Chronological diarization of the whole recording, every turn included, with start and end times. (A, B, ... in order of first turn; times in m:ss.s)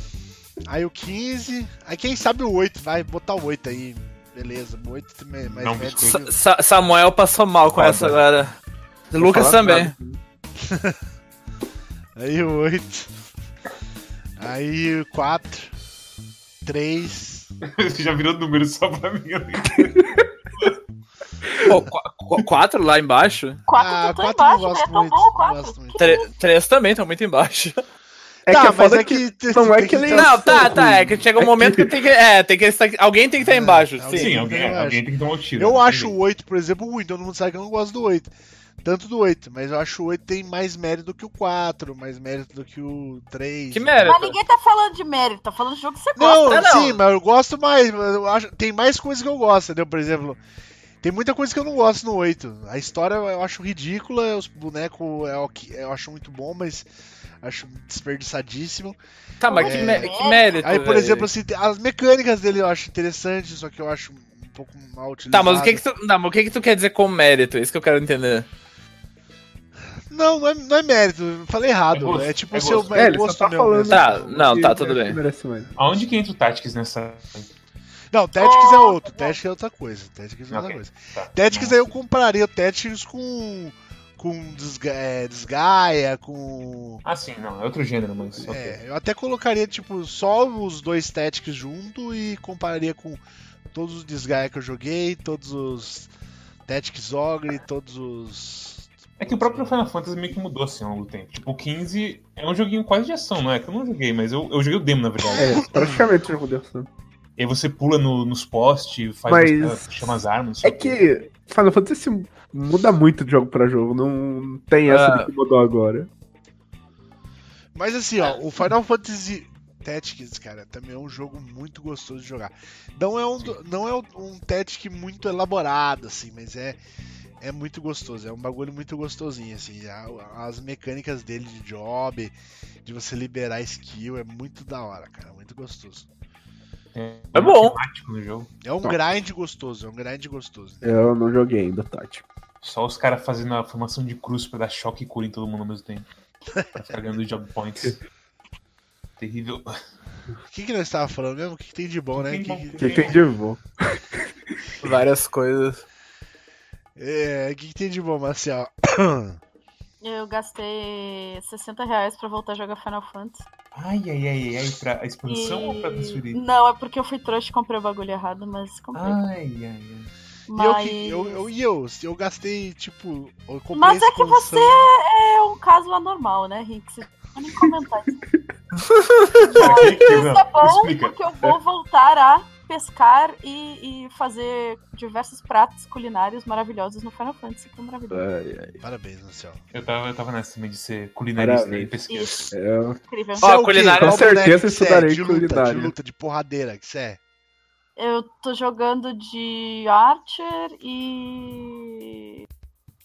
0:00.7-0:06.3 A
0:05.6-0:06.2 B
0:06.0-0:08.6 C
0:07.8-0:08.2 B
0:09.1-0:10.2 D
0:09.2-0:09.9 C
0:10.6-0:11.0 A
0:12.2-0:13.1 A
0:14.4-0:15.7 A
0:16.6-0:17.5 A
0:17.6-0:20.7 B
0:21.6-0:23.6 C
0:23.7-0:26.3 E
0:23.7-0:26.2 A
0:26.0-0:27.8 C
0:28.5-0:30.7 A
0:28.5-0:32.0 D
0:30.1-0:34.3 C
0:33.4-0:35.0 A
0:34.1-0:36.2 B
0:35.6-0:38.3 A
0:38.8-0:44.2 A
0:43.7-0:44.4 C
0:44.0-0:46.7 E
0:46.2-0:50.4 A
0:46.4-0:47.0 C
0:51.0-0:56.9 A
0:57.4-0:59.0 A
0:59.4-1:01.3 C
0:59.5-1:00.9 E
0:59.5-1:05.8 A
1:05.3-1:08.5 C
1:10.1-1:14.2 A
1:11.9-1:13.1 B
1:12.9-1:15.7 D
1:13.9-1:15.2 C
1:15.8-1:17.5 B
1:18.1-1:27.0 A
1:18.4-1:19.4 E
1:20.5-1:21.9 B
1:27.0-1:28.8 B
1:28.4-1:33.2 A
1:33.7-1:36.1 A
1:36.7-1:39.8 A
1:39.2-1:45.7 B
1:45.4-1:46.9 D
1:47.4-1:51.1 B
1:49.3-1:49.9 D
1:50.6-1:56.1 D
1:54.9-1:55.3 C
1:57.8-2:06.8 A
2:07.4-2:12.3 A
2:12.8-2:16.1 A
2:16.9-2:18.5 B
2:17.4-2:17.8 C
2:18.6-2:21.0 A
2:20.8-2:22.2 D
2:22.6-2:26.1 B
2:26.7-2:28.0 B
2:29.2-2:29.8 B
2:30.5-2:33.1 A
2:32.1-2:33.3 B
2:32.8-2:34.3 D
2:34.8-2:35.1 B
2:34.8-2:35.8 C
2:37.0-2:39.4 A
2:40.0-2:43.4 E
2:43.7-2:46.4 B
2:45.3-2:49.2 E
2:49.0-2:50.1 B
2:50.5-2:51.4 E
2:50.6-2:54.9 A
2:53.7-2:58.2 E
2:59.4-3:08.2 E
2:59.5-3:01.2 B
3:08.1-3:08.8 D
3:08.8-3:09.6 A
3:09.7-3:12.5 B
3:11.4-3:12.0 D
3:12.1-3:12.5 E
3:12.5-3:13.0 D
3:13.1-3:13.5 E
3:13.4-3:17.2 A
3:13.4-3:14.4 C
3:14.0-3:15.9 D
3:18.0-3:22.5 E